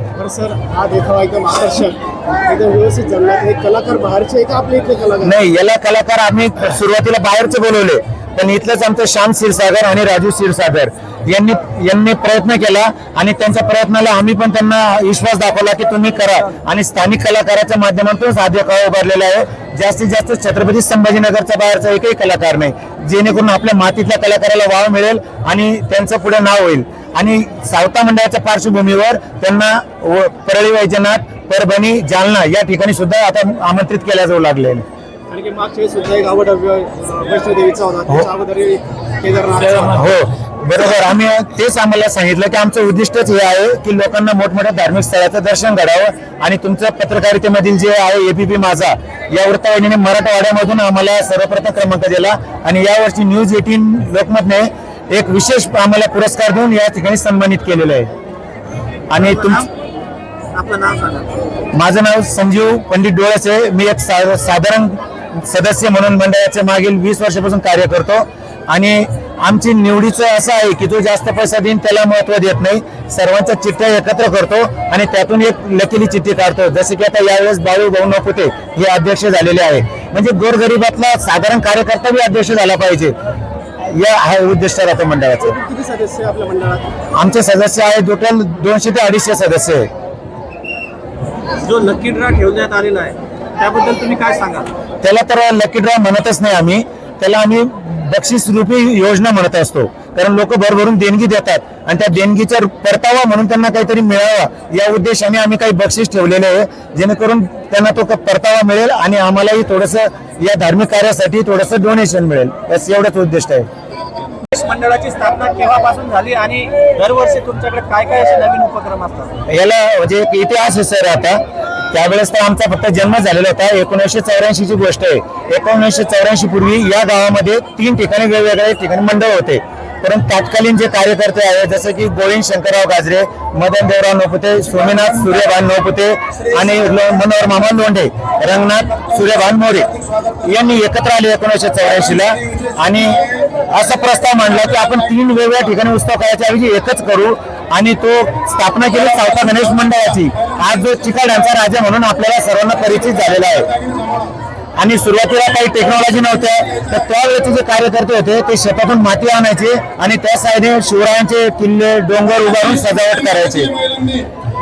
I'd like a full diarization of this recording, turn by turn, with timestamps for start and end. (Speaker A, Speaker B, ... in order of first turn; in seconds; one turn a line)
Speaker A: 0.2-5.4
Speaker B: 5.2-34.9
Speaker A: 35.3-40.1
Speaker B: 39.6-58.1
Speaker B: 59.1-59.6
Speaker C: 59.2-59.6
Speaker C: 60.5-61.4
Speaker B: 61.7-83.2
Speaker B: 83.8-85.6
Speaker A: 85.4-87.0
Speaker B: 87.1-89.9
Speaker C: 91.6-94.7
Speaker B: 95.0-113.7
Speaker C: 114.5-119.4
Speaker B: 119.5-153.8
Speaker B: 154.8-163.8